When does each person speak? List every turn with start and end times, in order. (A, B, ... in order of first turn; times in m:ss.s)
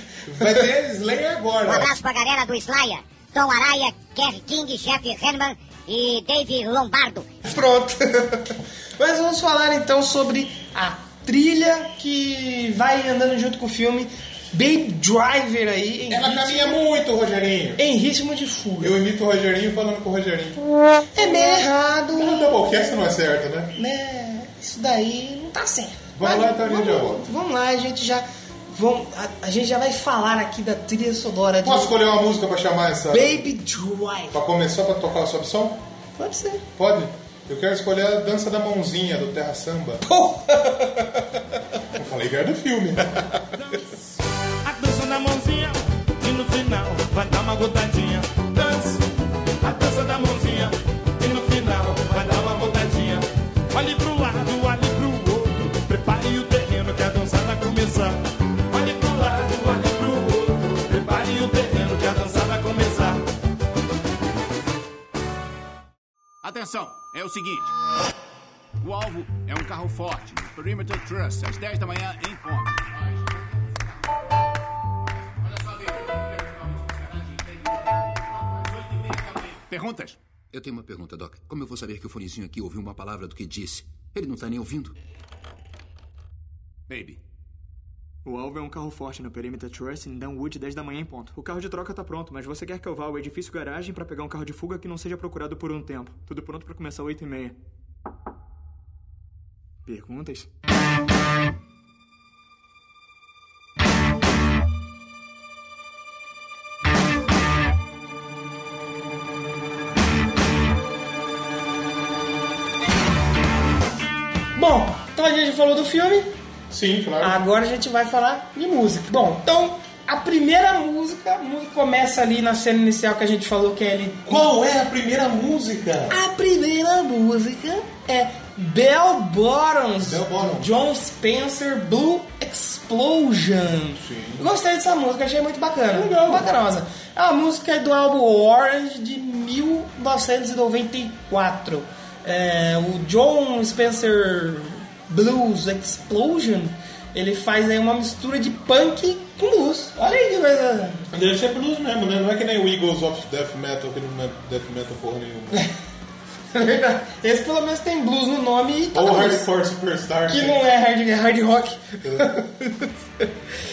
0:00.2-0:01.9 A
0:00.4-0:00.7 B
0:01.6-0:07.3 C
0:07.4-0:16.8 B
0:16.1-0:17.8 A
0:17.8-0:19.0 B
0:18.8-0:20.6 A
0:21.1-0:22.5 B
0:22.1-0:23.7 A
0:23.8-0:31.9 B
0:26.1-0:27.2 A
0:31.6-0:33.4 A
0:33.1-0:34.3 B
0:34.3-0:35.8 A
0:36.2-0:36.6 B
0:36.8-0:40.0 A
0:40.0-0:41.2 B
0:41.9-0:43.2 A
0:44.6-0:49.0 D
0:49.6-1:03.2 D
1:06.4-1:07.7 E
1:08.8-1:14.3 E
1:15.0-1:20.2 E
1:20.5-1:24.9 F
1:26.9-1:27.2 E
1:28.2-1:37.6 G
1:39.8-1:40.5 G
1:54.6-1:56.3 B
1:56.7-1:57.4 A
1:57.2-2:04.4 B
2:04.3-2:06.2 A
2:06.1-2:31.0 B
2:10.0-2:10.7 A
2:14.0-2:14.5 A
2:15.9-2:16.5 A
2:31.1-2:35.6 A
2:36.5-2:39.5 B
2:38.9-2:40.6 A
2:40.3-2:43.3 B
2:42.0-2:42.3 A